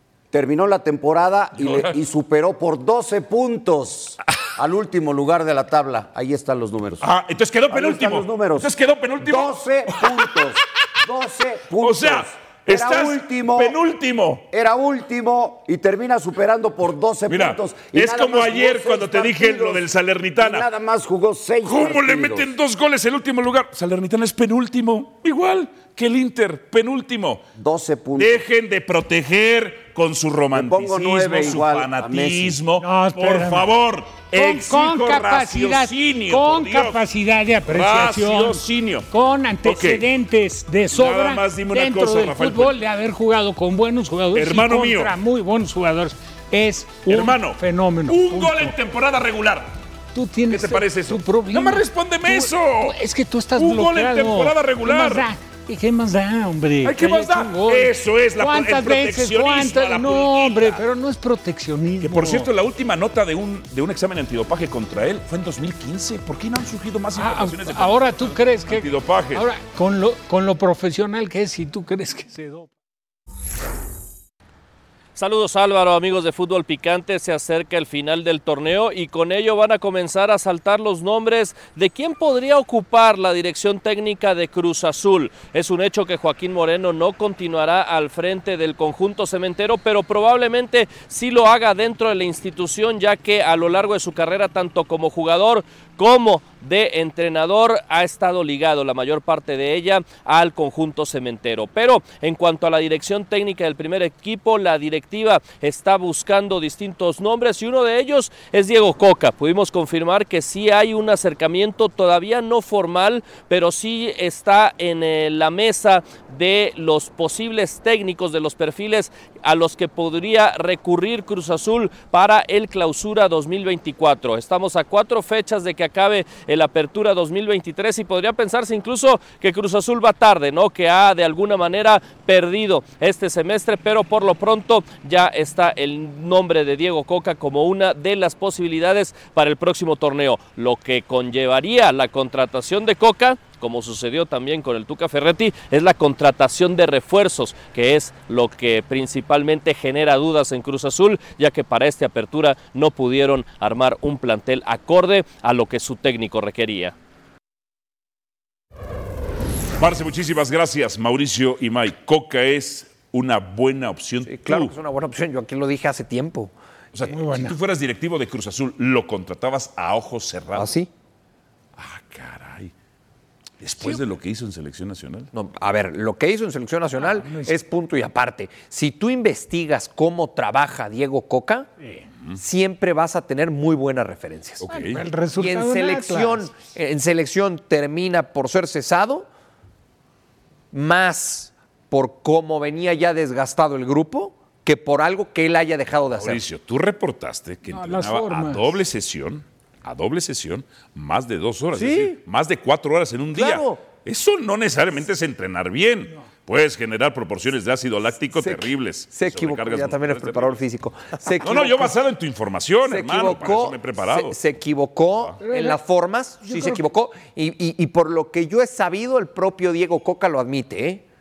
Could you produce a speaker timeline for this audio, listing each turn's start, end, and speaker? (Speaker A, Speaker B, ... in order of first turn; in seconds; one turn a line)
Speaker A: 0.3-7.1
Speaker B: 1.6-1.9
Speaker B: 7.0-10.3
Speaker A: 7.7-8.7
Speaker A: 9.2-13.8
Speaker B: 11.8-14.4
Speaker A: 14.5-19.9
Speaker B: 17.3-20.7
Speaker A: 20.4-22.5
Speaker B: 21.6-27.4
Speaker A: 27.6-28.4
Speaker B: 28.2-37.0
Speaker A: 30.5-32.6
Speaker C: 32.8-33.7
Speaker C: 34.3-48.8
Speaker B: 37.7-39.1
Speaker B: 39.6-40.0
Speaker B: 40.9-42.8
Speaker B: 44.3-45.1
Speaker B: 47.1-49.7
Speaker C: 50.1-62.5
Speaker B: 50.5-53.0
Speaker B: 53.5-55.3
Speaker B: 56.8-60.8
Speaker B: 62.0-69.4
Speaker C: 67.2-72.7
Speaker D: 75.2-156.9
Speaker B: 159.8-164.7
Speaker E: 164.3-166.5
Speaker B: 166.9-170.7
Speaker C: 167.1-167.6
Speaker E: 170.5-170.9
Speaker B: 171.8-172.7
Speaker B: 173.6-175.3
Speaker E: 175.3-181.7
Speaker C: 177.0-177.5
Speaker E: 182.4-184.7
Speaker B: 184.6-185.1
Speaker C: 184.7-186.5
Speaker E: 185.3-189.3
Speaker E: 190.7-196.4
Speaker B: 196.1-210.6
Speaker C: 197.7-198.8
Speaker E: 201.7-202.2
Speaker E: 203.3-203.8
Speaker E: 208.4-211.9
Speaker B: 211.4-214.4
Speaker E: 212.8-221.0
Speaker C: 215.4-215.8
Speaker C: 216.4-216.8